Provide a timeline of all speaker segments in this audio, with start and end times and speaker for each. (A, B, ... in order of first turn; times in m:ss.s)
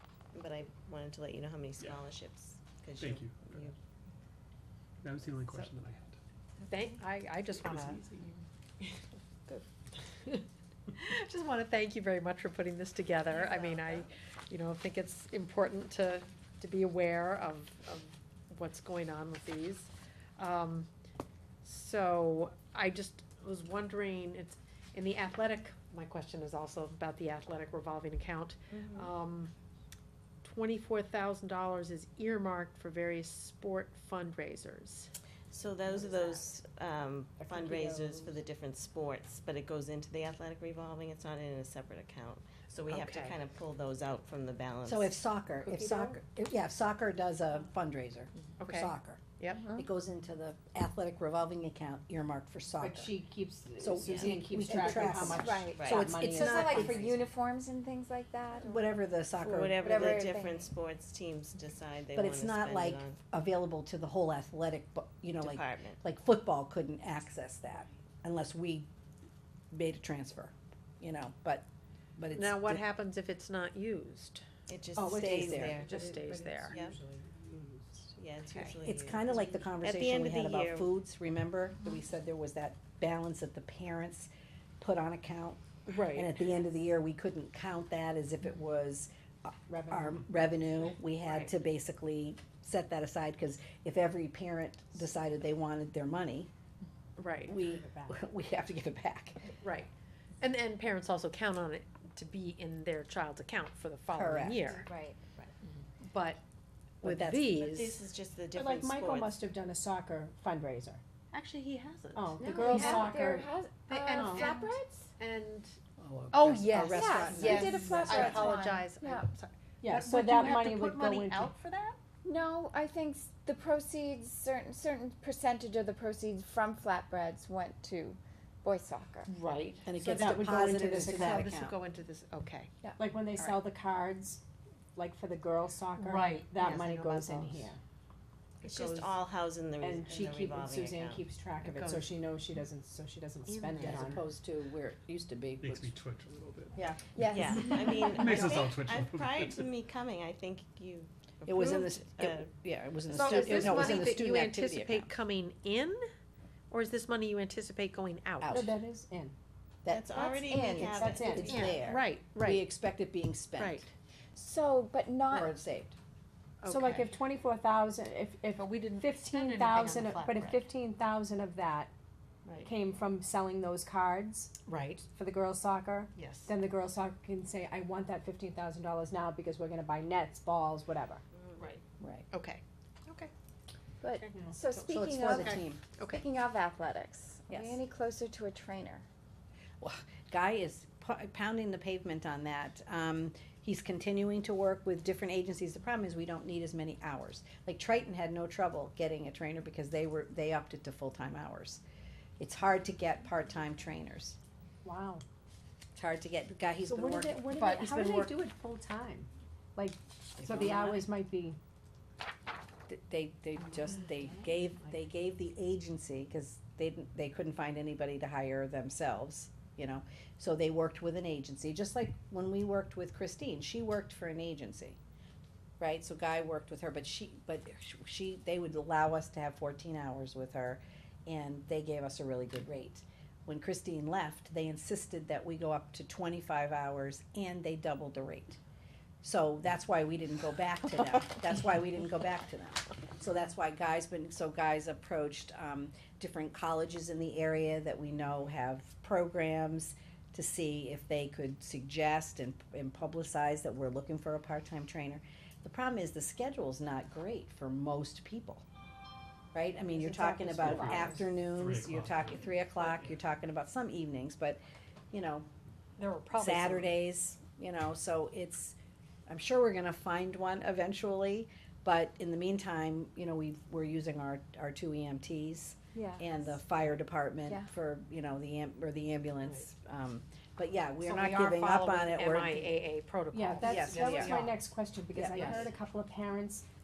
0:00.3-0:03.8 A
0:03.0-0:03.7 B
0:05.0-0:06.2 B
0:06.6-0:08.3 C
0:07.6-0:08.0 B
0:10.9-0:20.9 C
0:13.3-0:14.0 A
0:21.6-0:29.5 C
0:28.7-0:29.1 A
0:30.4-0:35.1 C
0:35.5-0:45.2 A
0:37.4-0:38.4 D
0:42.9-0:43.4 C
0:44.8-0:49.2 E
0:45.6-0:46.2 D
0:48.6-0:49.7 C
0:49.7-0:53.2 E
0:52.8-0:57.0 D
0:53.8-0:57.1 E
0:54.0-0:54.4 A
0:54.7-0:58.8 F
0:55.2-0:56.1 A
0:56.8-0:57.0 A
0:58.6-1:00.2 E
0:59.4-1:03.2 A
0:59.8-1:00.7 F
1:02.1-1:08.9 E
1:05.4-1:06.0 A
1:09.7-1:12.8 E
1:12.3-1:14.4 C
1:14.7-1:16.0 A
1:15.0-1:18.1 D
1:15.0-1:15.8 E
1:15.7-1:16.8 C
1:18.1-1:20.9 A
1:18.4-1:18.8 C
1:18.8-1:36.5 E
1:25.9-1:26.3 C
1:29.7-1:30.4 D
1:31.2-1:31.5 C
1:37.2-1:37.5 C
1:37.5-1:39.5 E
1:37.5-1:38.2 D
1:39.6-1:39.9 C
1:40.4-1:44.8 C
1:44.1-1:44.8 E
1:44.7-1:45.2 F
1:46.1-1:46.4 C
1:47.0-1:47.8 C
1:47.0-1:48.0 E
1:47.6-1:49.4 A
1:48.5-1:51.0 D
1:51.3-1:53.2 C
1:52.1-1:53.5 D
1:52.4-1:55.1 F
1:53.9-1:55.8 C
1:54.1-1:54.6 D
1:56.0-1:58.6 E
1:56.3-2:02.0 C
1:56.7-1:59.3 F
1:59.8-2:01.5 D
2:02.2-2:09.3 F
2:09.3-2:12.8 C
2:09.8-2:11.7 E
2:10.0-2:11.5 D
2:13.0-2:14.4 D
2:14.9-2:17.8 D
2:16.0-2:17.7 C
2:18.6-2:19.2 C
2:18.6-2:21.3 A
2:19.8-2:24.2 D
2:21.6-2:22.1 C
2:23.8-2:24.1 A
2:23.8-2:25.9 E
2:25.6-2:26.8 B
2:26.8-2:28.7 F
2:27.3-2:32.5 A
2:27.5-2:29.7 B
2:31.4-2:35.1 E
2:33.1-2:36.0 C
2:33.2-2:33.9 A
2:36.7-2:38.6 C
2:38.4-2:38.8 E
2:38.5-2:39.3 D
2:39.8-2:43.8 E
2:39.9-2:41.8 A
2:40.1-2:41.3 F
2:40.8-2:41.8 D
2:41.5-2:42.6 C
2:43.6-2:43.9 C
2:44.4-2:45.5 F
2:45.3-2:46.0 E
2:46.6-2:47.0 C
2:46.6-2:51.9 D
2:48.5-2:50.6 C
2:52.4-2:52.7 C
2:52.6-2:54.5 D
2:54.6-2:55.0 C
2:55.1-3:01.2 D
2:56.1-2:56.5 C
3:01.6-3:03.3 C
3:02.0-3:02.3 E
3:04.0-3:09.0 F
3:04.2-3:04.4 C
3:04.3-3:04.7 D
3:04.9-3:05.8 E
3:05.3-3:06.2 C
3:07.5-3:07.8 E
3:09.8-3:21.8 E
3:22.4-3:24.4 E
3:24.8-3:25.2 D
3:25.9-3:27.6 E
3:26.8-3:31.6 D
3:27.5-3:28.3 C
3:30.4-3:31.1 E
3:32.9-3:45.0 E
3:45.8-3:58.6 E
3:59.2-4:18.6 E
4:19.5-4:24.6 E
4:19.9-4:21.3 D
4:20.6-4:23.2 B
4:25.1-4:25.4 E
4:26.0-4:26.9 D
4:26.3-4:28.8 E
4:29.3-4:42.7 E
4:35.9-4:36.4 F
4:41.0-4:44.5 C
4:43.3-4:46.6 D
4:43.6-4:44.4 E
4:45.1-4:45.7 E